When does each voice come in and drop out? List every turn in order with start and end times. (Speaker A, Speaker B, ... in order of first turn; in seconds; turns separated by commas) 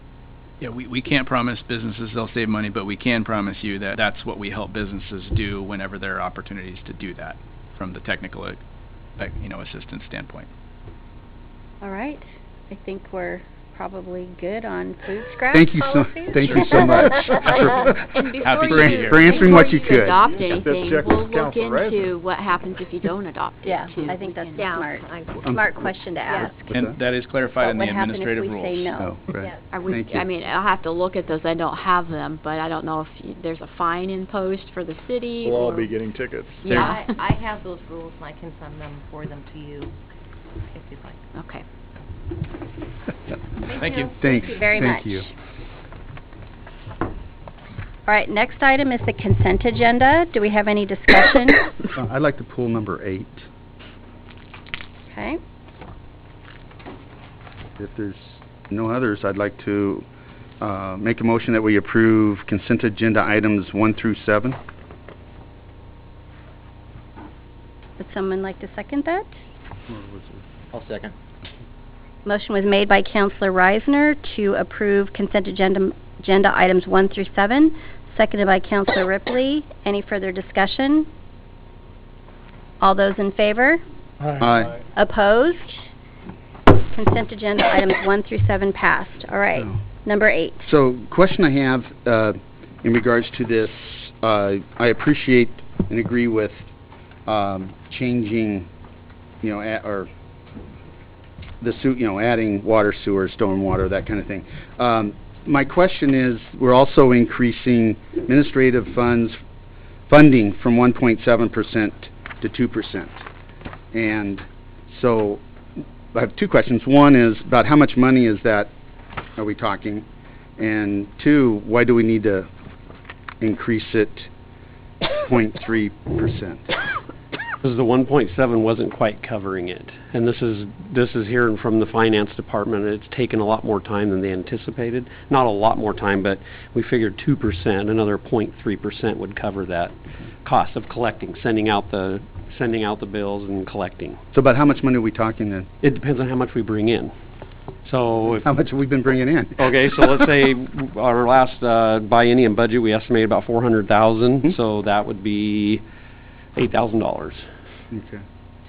Speaker A: 0.6-8.6, Speaker A: 9.2-10.5, Speaker B: 11.8-17.4, Speaker C: 15.5-20.2, Speaker D: 16.3-24.9, Speaker A: 17.4-17.7, Speaker A: 18.4-19.4, Speaker E: 20.5-22.1, Speaker B: 23.6-26.7, Speaker F: 24.6-25.4, Speaker C: 25.4-25.9, Speaker C: 26.6-27.0, Speaker A: 26.7-28.9, Speaker B: 27.6-29.2, Speaker C: 29.0-30.2, Speaker D: 29.7-36.0, Speaker E: 35.4-36.8, Speaker D: 36.6-37.1, Speaker F: 36.7-40.0, Speaker F: 40.7-41.2, Speaker D: 41.3-41.6, Speaker A: 43.7-44.1, Speaker C: 44.2-45.3, Speaker B: 44.3-45.3, Speaker B: 48.1-51.7, Speaker C: 52.0-53.5, Speaker B: 55.1-55.4, Speaker C: 57.8-60.0, Speaker C: 60.6-64.6, Speaker B: 68.0-69.3, Speaker C: 69.9-70.4, Speaker B: 72.2-81.1, Speaker B: 82.8-83.8, Speaker C: 84.4-84.8, Speaker B: 85.0-85.9, Speaker B: 86.9-90.7, Speaker C: 90.6-96.7, Speaker C: 97.3-98.7, Speaker C: 99.4-100.1, Speaker C: 101.6-109.4, Speaker C: 110.1-113.2, Speaker C: 113.9-115.4, Speaker C: 116.1-118.7, Speaker C: 119.4-120.0, Speaker C: 120.6-122.5, Speaker C: 123.4-124.3, Speaker C: 125.0-126.7, Speaker G: 127.7-139.9, Speaker G: 140.5-144.2, Speaker C: 144.3-145.7, Speaker G: 145.8-147.1, Speaker G: 147.9-148.4, Speaker C: 148.3-150.1, Speaker G: 149.7-155.8, Speaker G: 156.6-157.3, Speaker C: 157.9-158.2